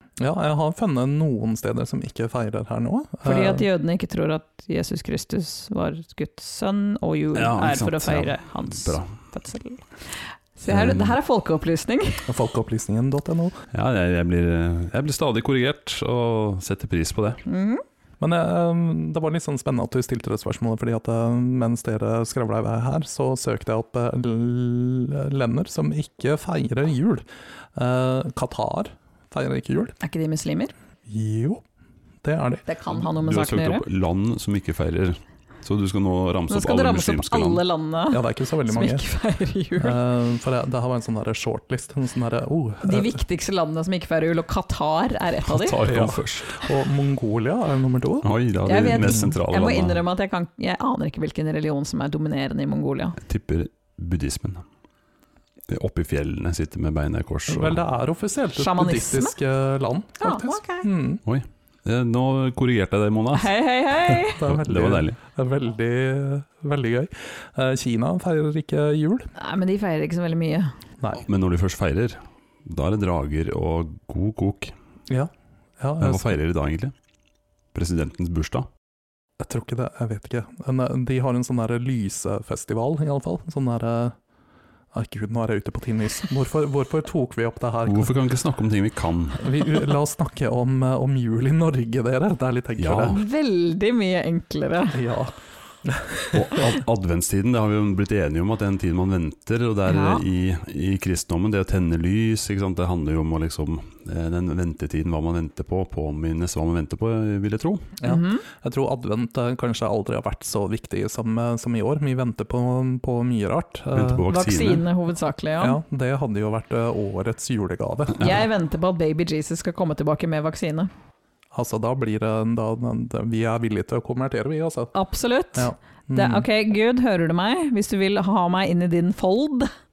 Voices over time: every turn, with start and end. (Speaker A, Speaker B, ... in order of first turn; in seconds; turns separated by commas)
Speaker A: 0.2-3.6, Speaker B: 3.2-9.8, Speaker C: 7.3-9.1, Speaker B: 10.6-12.2, Speaker A: 10.7-11.1, Speaker A: 12.3-13.6, Speaker C: 13.7-17.4, Speaker B: 17.4-17.8, Speaker A: 18.2-29.9, Speaker B: 30.0-30.7, Speaker A: 31.1-31.6, Speaker A: 32.2-32.6, Speaker B: 32.6-33.8, Speaker C: 33.0-37.6, Speaker B: 36.5-40.0, Speaker A: 38.1-39.0, Speaker A: 39.8-43.2, Speaker B: 42.8-45.9, Speaker C: 45.4-46.5, Speaker A: 45.8-48.3, Speaker C: 48.2-50.0, Speaker B: 48.6-53.2, Speaker A: 49.0-49.3, Speaker C: 53.2-54.6, Speaker C: 55.7-57.8, Speaker A: 57.5-61.2, Speaker B: 58.5-59.4, Speaker B: 60.2-60.9, Speaker C: 61.2-63.5, Speaker B: 63.3-64.4, Speaker A: 64.2-69.3, Speaker C: 64.4-65.2, Speaker B: 69.3-70.7, Speaker C: 71.3-74.7, Speaker A: 75.1-76.4, Speaker C: 76.0-76.9, Speaker C: 77.7-78.7, Speaker A: 79.4-84.2, Speaker A: 84.9-88.1, Speaker C: 87.8-89.5, Speaker A: 89.4-93.2, Speaker C: 92.8-93.2, Speaker B: 93.1-95.0, Speaker A: 94.9-96.6, Speaker C: 96.3-107.9, Speaker B: 99.9-100.2, Speaker A: 108.0-114.2, Speaker B: 108.0-108.5, Speaker C: 113.9-114.8, Speaker B: 114.3-115.8, Speaker A: 115.6-118.4, Speaker B: 118.1-120.9, Speaker A: 121.5-124.9, Speaker B: 124.9-129.7, Speaker A: 125.5-126.5